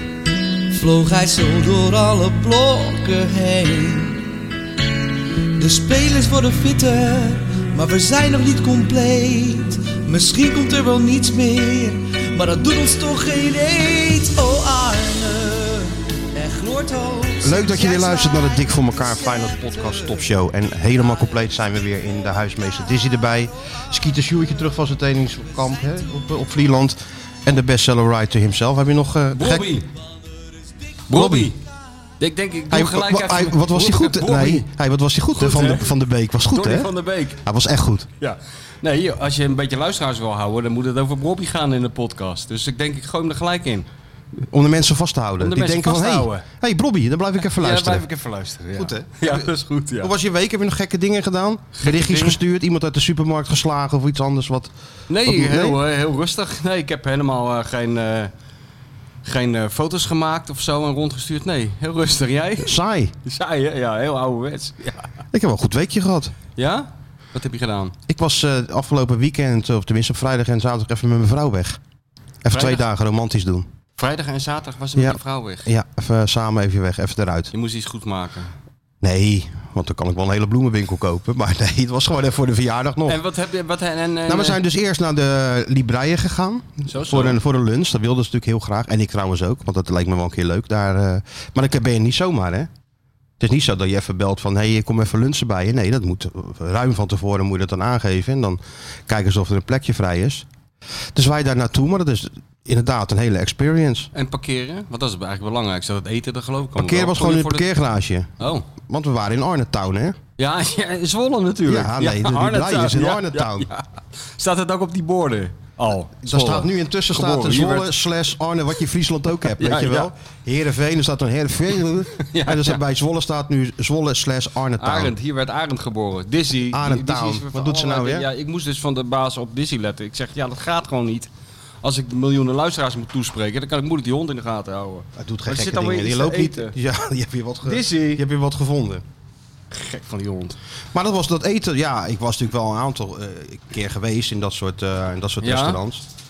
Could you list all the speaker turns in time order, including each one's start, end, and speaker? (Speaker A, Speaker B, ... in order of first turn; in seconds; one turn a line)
Speaker A: 0.7-4.3
Speaker A: 5.6-20.2
Speaker B: 17.4-29.8
Speaker C: 29.3-29.9
Speaker C: 31.1-31.6
Speaker B: 31.1-31.5
Speaker C: 32.2-34.7
Speaker B: 32.7-36.9
Speaker C: 35.4-35.9
Speaker C: 36.5-37.4
Speaker B: 37.4-38.1
Speaker C: 38.2-43.9
Speaker B: 44.4-48.0
Speaker C: 45.4-46.5
Speaker C: 47.4-50.1
Speaker B: 48.7-55.8
Speaker C: 51.8-52.4
Speaker C: 55.1-58.3
Speaker C: 59.2-65.1
Speaker B: 62.6-63.1
Speaker B: 65.3-66.3
Speaker C: 66.6-67.9
Speaker B: 68.1-71.8
Speaker B: 72.4-73.7
Speaker C: 72.5-72.8
Speaker C: 74.0-75.7
Speaker B: 75.0-77.5
Speaker C: 77.5-78.5
Speaker B: 79.0-83.2
Speaker C: 83.1-84.6
Speaker B: 84.2-92.7
Speaker C: 86.8-87.4
Speaker B: 93.4-100.5
Speaker B: 101.1-104.1
Speaker C: 104.1-107.7
Speaker B: 106.8-108.3
Speaker C: 108.4-108.6
Speaker B: 108.8-110.2
Speaker C: 110.4-117.9
Speaker B: 111.6-113.7
Speaker B: 116.2-125.1
Speaker C: 119.6-120.1
Speaker C: 122.2-122.8
Speaker C: 124.8-131.3
Speaker B: 126.7-128.3
Speaker C: 131.8-136.7
Speaker B: 135.2-139.0
Speaker C: 137.6-138.2
Speaker C: 139.7-140.6
Speaker B: 140.9-146.0
Speaker C: 145.4-145.8